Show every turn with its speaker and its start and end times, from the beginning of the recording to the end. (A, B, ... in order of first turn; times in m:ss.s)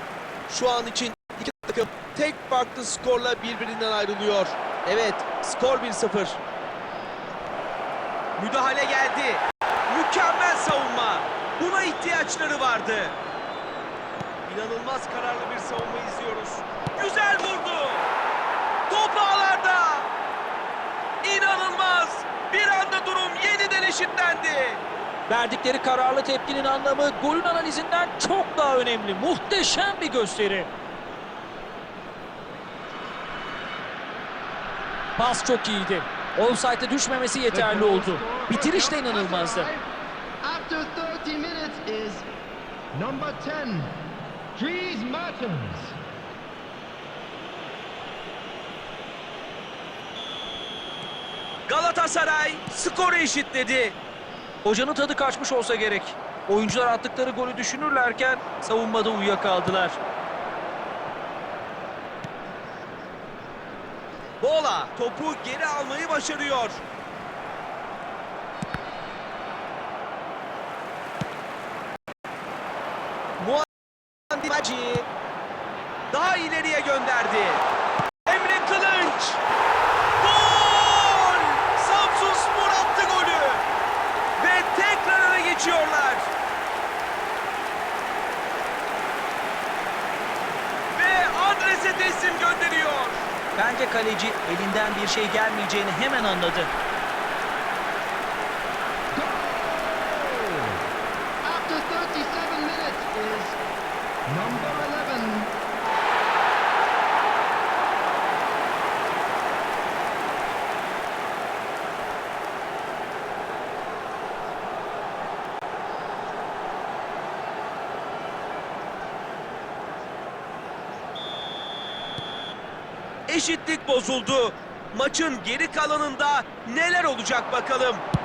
0:00.5-0:06.4 A
0:08.4-0:13.2 A
0:14.4-0:18.1 A
0:18.9-0:20.1 A
0:21.2-0:24.8 A
0:25.3-0:30.7 B
0:35.2-0:39.7 B
0:37.5-0:39.8 C
0:40.4-0:42.2 C
0:42.9-0:43.8 C
0:44.5-0:45.9 C
0:51.7-0:54.0 A
0:54.6-1:00.0 B
1:04.4-1:06.8 A
1:13.4-1:13.6 A
1:14.3-1:15.1 A
1:16.1-1:17.6 A
1:18.2-1:19.4 A
1:20.2-1:23.6 A
1:24.4-1:26.3 A
1:30.9-1:33.3 A
1:33.6-1:36.7 B
1:39.1-1:40.8 C
1:41.4-1:43.6 C
1:44.3-1:45.5 C
2:03.3-2:08.0 A